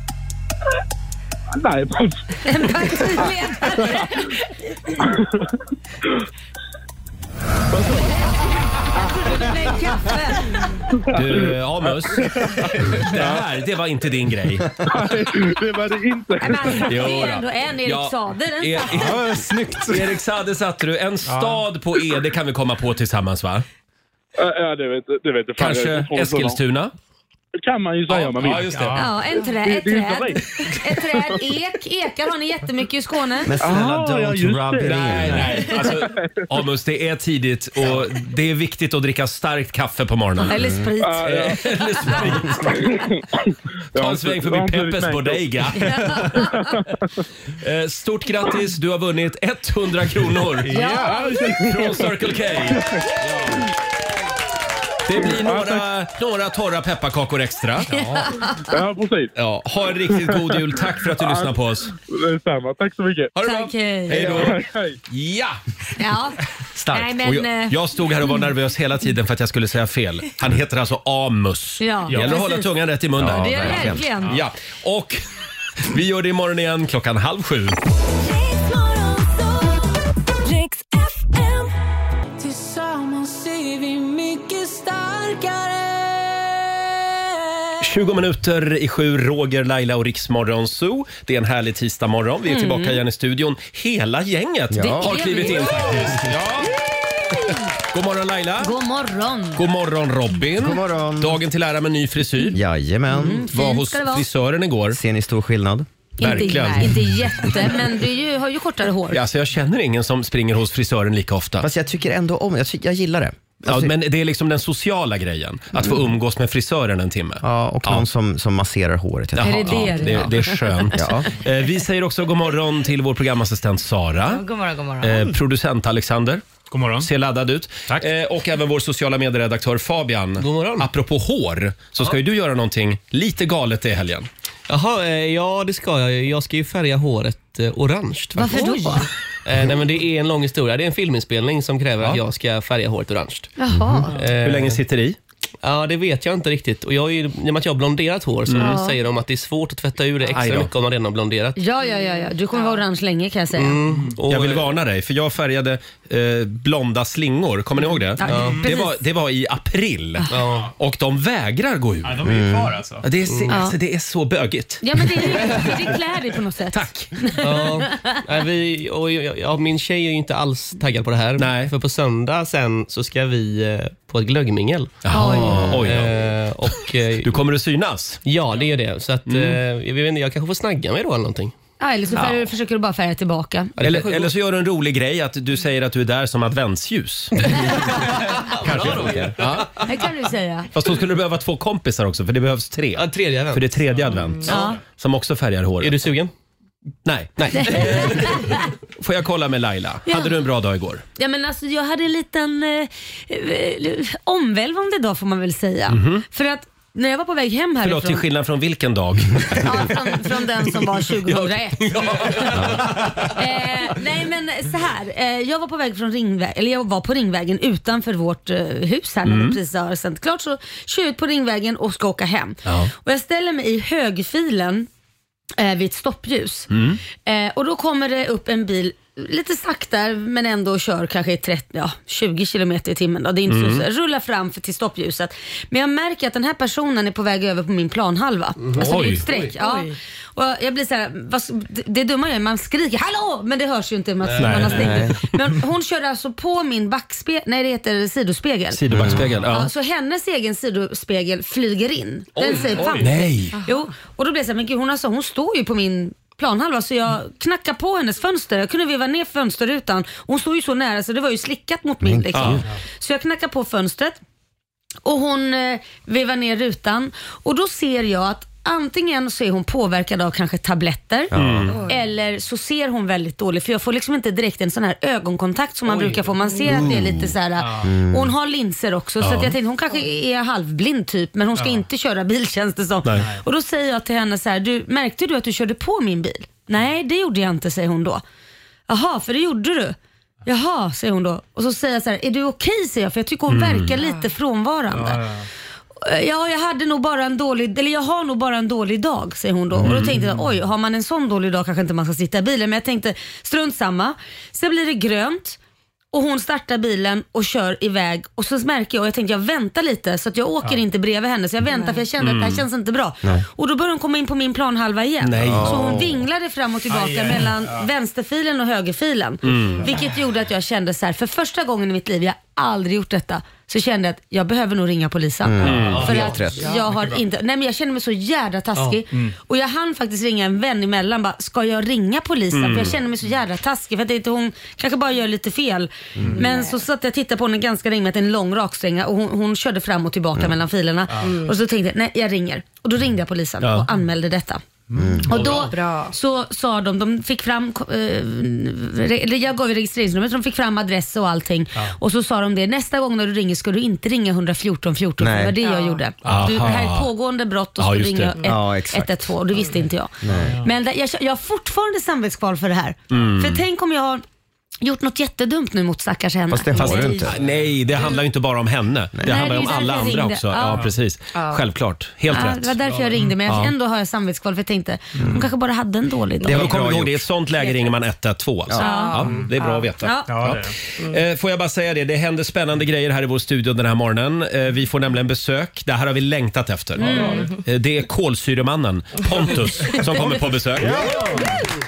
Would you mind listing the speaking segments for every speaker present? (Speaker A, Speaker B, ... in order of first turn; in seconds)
Speaker A: 1.6-2.2, 5.0-5.5, 7.7-8.3, 10.9-11.5, 12.1-13.3, 14.9-17.1, 24.4-26.6, 27.6-28.8, 29.5-31.4, 33.6-36.2, 41.0-41.6, 42.5-45.6, 46.6-46.9, 51.0-53.1, 55.2-55.9, 58.7-59.3, 60.3-63.3, 64.1-65.0
Speaker B: 2.4-5.1, 8.9-10.6, 16.4-19.1, 28.9-33.5, 40.5-41.3, 45.9-46.7, 50.7-51.4, 58.1-58.6, 63.4-64.3, 66.0-66.4, 66.9-67.8, 71.8-72.6, 73.3-74.4, 92.5-93.0, 94.8-96.2, 98.6-99.6, 103.1-104.2, 106.2-109.2, 119.4-120.9, 138.3-139.1, 143.6-144.1, 148.6-149.0, 151.6-153.8, 158.2-158.9, 163.5-163.8, 164.8-168.2, 175.1-175.7, 181.8-183.7, 189.8-190.7, 194.4-194.8, 197.5-198.6, 200.1-200.3, 201.2-208.2, 209.5-212.5, 213.2-224.9, 225.6-226.7, 227.2-248.8, 249.5-264.2, 265.0-288.2, 288.9-295.2, 296.0-305.6, 306.1-344.6, 345.3-364.2, 364.8-367.3, 369.2-370.9, 372.3-376.6, 378.8-379.3, 380.0-380.3, 387.0-387.5
Speaker C: 11.1-12.3, 13.0-14.7, 16.8-23.6, 25.6-26.9, 28.1-29.0, 34.8-40.6, 41.2-42.7, 44.0-46.5, 47.6-50.7, 51.5-52.9, 55.0-58.0, 59.4-61.9, 63.4-65.6, 67.2-75.2, 75.9-77.8, 87.8-96.8, 97.9-98.7, 99.5-102.6, 103.2-105.0, 106.2-107.6, 109.1-111.7, 113.6-118.0, 119.3-124.5, 125.0-126.4, 127.0-134.3, 144.4-145.2, 148.5-148.8, 150.3-150.7, 154.3-162.2, 163.0-165.8, 166.7-167.1, 171.4-171.7, 175.0-176.1, 177.2-178.2, 179.3-179.6, 183.8-187.9, 188.6-189.8, 190.7-196.0, 197.0-201.0, 205.9-206.2, 207.8-210.0, 212.4-212.9, 219.2-219.6, 222.6-222.9, 226.7-227.0, 233.5-233.8, 238.8-239.2, 244.4-245.2, 248.7-249.7, 252.9-253.5, 262.3-262.6, 271.3-271.8, 276.7-277.1, 279.2-279.6, 293.5-293.9, 299.8-300.1, 312.2-312.6, 315.2-316.0, 319.5-319.8, 325.6-326.2, 332.5-333.0, 343.6-343.9, 356.2-357.1, 357.8-358.3, 363.1-363.6, 366.8-372.7, 373.5-373.7, 376.5-391.1
Speaker D: 18.8-20.2, 21.2-21.6, 28.4-29.1, 50.6-51.3, 57.9-58.3, 72.1-72.4, 126.7-127.1, 158.3-158.6, 162.0-163.1, 277.6-277.9, 281.6-281.8, 294.9-295.5, 299.9-300.5, 316.9-317.9, 326.7-327.2, 344.9-345.5, 360.3-360.7, 370.6-370.9, 379.2-379.5, 380.3-380.7, 387.1-387.4, 390.8-391.6
Speaker E: 33.5-35.6, 40.6-40.9, 66.7-67.2, 73.2-74.1, 94.7-95.1, 100.6-101.4, 102.5-103.4, 104.9-105.9, 111.6-113.9, 117.4-120.3, 120.9-121.4, 143.7-144.1, 162.2-162.7, 244.7-245.1, 248.9-249.3, 262.0-262.6, 271.3-271.7, 276.7-277.0, 277.8-278.3, 315.4-316.2, 325.4-326.7, 344.9-345.5, 355.2-355.6, 358.4-359.3, 360.2-360.5, 366.5-367.4, 369.2-369.4, 375.2-375.4, 376.4-377.3, 390.8-391.3
Speaker F: 78.2-81.7, 82.4-87.0, 124.2-125.3, 239.6-239.9, 336.3-336.7, 341.2-341.5, 345.5-346.1, 355.6-356.0, 371.3-371.6, 378.8-379.9
Speaker G: 130.4-130.9, 134.7-143.5, 144.1-144.8, 145.6-151.6, 153.5-154.7, 158.2-158.7, 160.3-160.7, 163.2-163.6, 167.4-177.3, 178.2-181.5, 183.8-184.3, 187.5-189.8, 192.9-194.5, 195.8-196.3, 197.5-198.4, 211.3-213.2, 238.6-239.5, 244.2-244.9, 252.4-253.1, 275.9-276.2, 325.9-326.4